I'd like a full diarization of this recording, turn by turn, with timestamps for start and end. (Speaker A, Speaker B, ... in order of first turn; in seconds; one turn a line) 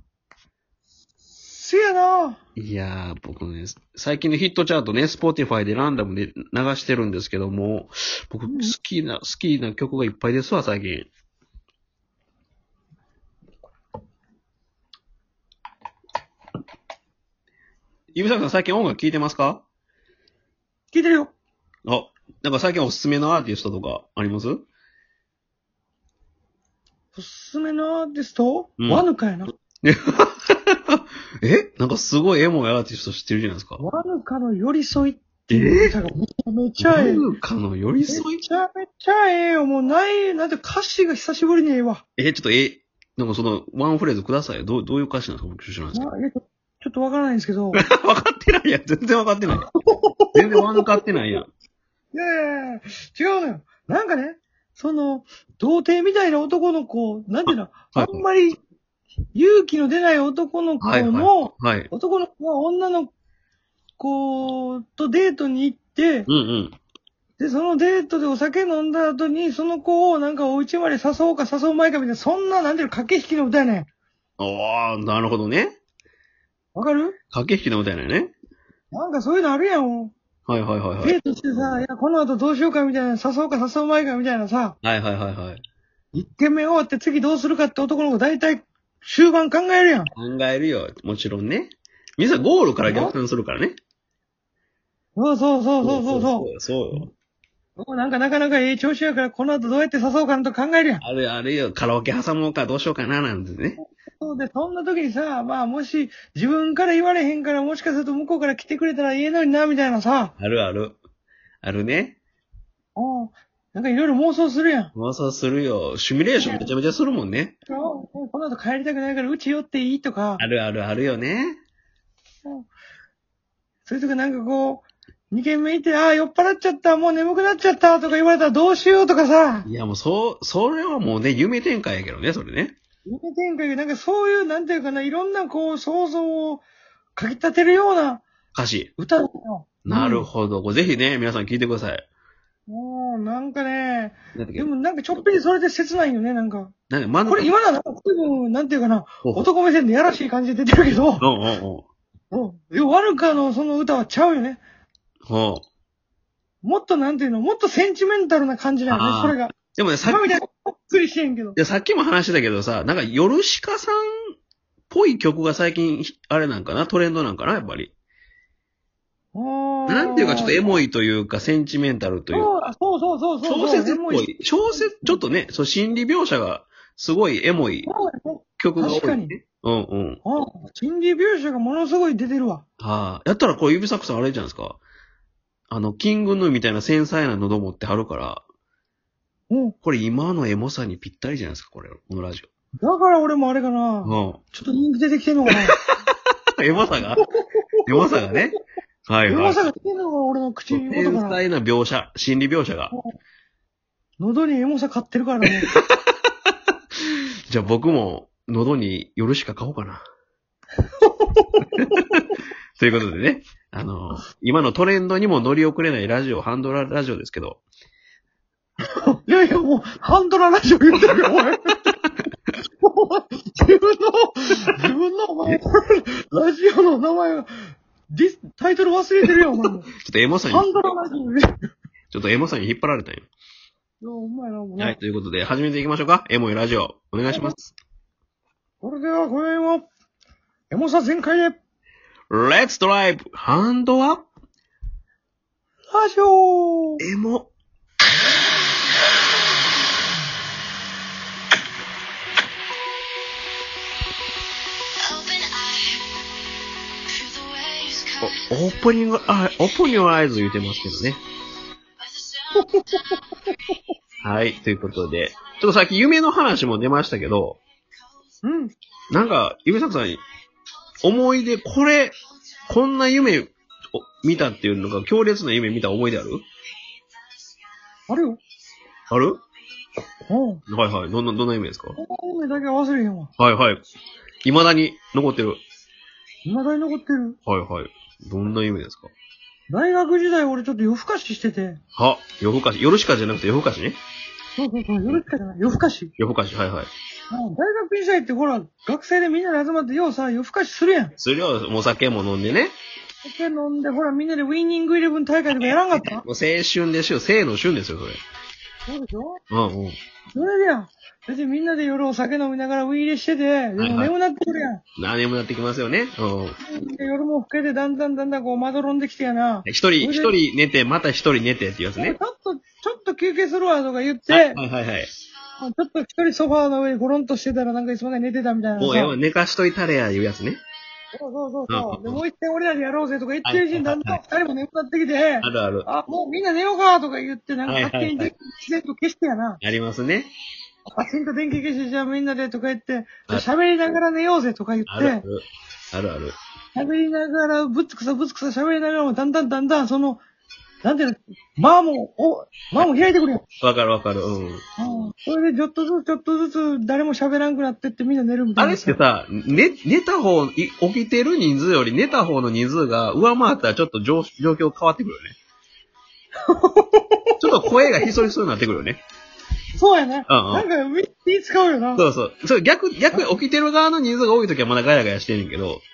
Speaker A: 1.3-2.4
Speaker B: 2.5-11.1
Speaker A: 8.5-8.7
Speaker B: 18.1-19.6
Speaker A: 20.9-21.3
Speaker B: 21.9-24.6
Speaker A: 27.1-29.5
Speaker B: 28.8-29.1
Speaker B: 29.8-33.8
Speaker A: 33.8-37.2
Speaker B: 35.5-35.9
Speaker B: 36.8-38.4
Speaker A: 38.1-42.0
Speaker B: 42.2-46.1
Speaker A: 45.9-47.8
Speaker B: 47.7-49.6
Speaker A: 49.6-50.9
Speaker B: 50.3-51.5
Speaker A: 52.1-58.6
Speaker B: 57.9-58.2
Speaker A: 59.3-63.1
Speaker B: 60.8-61.9
Speaker A: 64.0-66.3
Speaker B: 66.3-66.8
Speaker A: 67.4-73.9
Speaker B: 74.4-75.8
Speaker A: 76.7-77.2
Speaker B: 77.3-78.3
Speaker A: 78.9-80.1
Speaker B: 80.5-81.2
Speaker A: 81.0-84.8
Speaker B: 84.8-85.6
Speaker A: 86.1-90.1
Speaker B: 90.2-93.8
Speaker A: 92.8-93.1
Speaker A: 95.2-97.0
Speaker B: 95.8-97.1
Speaker A: 97.8-101.0
Speaker B: 101.0-103.8
Speaker A: 103.8-110.3
Speaker B: 110.4-111.0
Speaker B: 111.6-112.2
Speaker A: 113.0-114.9
Speaker B: 114.9-117.5
Speaker A: 116.4-116.7
Speaker A: 117.7-120.4
Speaker B: 120.4-121.6
Speaker A: 123.8-129.7
Speaker B: 129.6-132.8
Speaker A: 133.1-136.6
Speaker A: 137.2-138.2
Speaker B: 138.5-138.9
Speaker A: 139.0-140.3
Speaker B: 139.8-142.0
Speaker A: 142.7-146.7
Speaker B: 144.3-144.7
Speaker B: 146.9-147.5
Speaker A: 147.3-151.3
Speaker B: 149.2-149.5
Speaker B: 151.2-151.8
Speaker A: 152.3-154.6
Speaker B: 155.3-155.6
Speaker A: 156.6-161.6
Speaker B: 158.9-160.2
Speaker B: 161.6-164.3
Speaker B: 164.9-167.9
Speaker A: 169.3-170.6
Speaker B: 169.9-172.5
Speaker A: 172.3-175.2
Speaker B: 173.4-177.9
Speaker A: 177.8-179.3
Speaker B: 178.6-180.2
Speaker A: 180.2-182.6
Speaker B: 182.8-184.8
Speaker B: 185.7-188.4
Speaker A: 189.5-189.8
Speaker B: 189.8-192.5
Speaker A: 192.8-195.8
Speaker B: 194.0-194.4
Speaker B: 196.6-197.2
Speaker A: 197.2-198.4
Speaker B: 197.9-198.6
Speaker B: 199.1-199.6
Speaker A: 199.3-201.4
Speaker B: 200.7-202.9
Speaker A: 204.2-205.7
Speaker B: 205.5-206.1
Speaker B: 207.5-210.0
Speaker A: 211.1-211.7
Speaker B: 211.8-217.6
Speaker A: 219.1-221.8
Speaker A: 222.8-229.9
Speaker B: 230.0-230.7
Speaker A: 230.5-231.5
Speaker B: 232.1-233.3
Speaker A: 234.0-235.0
Speaker B: 234.8-237.7
Speaker A: 237.3-237.6
Speaker A: 238.8-239.9
Speaker A: 240.7-241.6
Speaker B: 242.3-244.3
Speaker A: 245.9-247.0
Speaker B: 247.0-247.5
Speaker B: 258.2-261.2
Speaker A: 262.6-263.2
Speaker B: 264.2-267.6
Speaker A: 268.4-268.7
Speaker B: 269.1-270.2
Speaker B: 271.0-272.1
Speaker B: 272.7-276.4
Speaker A: 278.1-278.4
Speaker B: 279.1-279.4
Speaker A: 280.3-280.6
Speaker B: 280.7-281.9
Speaker A: 282.0-283.3
Speaker B: 283.4-283.8
Speaker B: 284.4-285.6
Speaker A: 286.4-287.4
Speaker B: 287.5-289.1
Speaker A: 289.7-291.8
Speaker B: 291.9-294.0
Speaker A: 294.6-296.1
Speaker B: 296.2-296.9
Speaker A: 297.3-301.1
Speaker B: 301.2-302.7
Speaker A: 303.2-306.2
Speaker B: 305.9-308.2
Speaker A: 308.9-309.4
Speaker B: 309.5-310.0
Speaker A: 310.3-314.8
Speaker B: 313.8-314.1
Speaker B: 315.0-316.6
Speaker A: 316.6-320.3
Speaker B: 319.6-322.2
Speaker A: 321.9-324.6
Speaker B: 324.3-325.1
Speaker A: 325.6-329.1
Speaker B: 328.8-330.6
Speaker A: 331.1-339.6
Speaker B: 331.7-332.2
Speaker B: 333.4-334.2
Speaker B: 335.4-335.9
Speaker B: 337.7-338.3
Speaker B: 339.6-340.3
Speaker A: 340.9-345.2
Speaker B: 344.9-346.4
Speaker A: 346.7-350.2
Speaker A: 350.8-353.4
Speaker B: 353.6-354.6
Speaker A: 354.8-359.0
Speaker B: 358.6-365.4
Speaker A: 366.5-367.9
Speaker B: 367.4-369.0
Speaker A: 369.7-372.0
Speaker B: 370.3-370.7
Speaker B: 371.9-375.8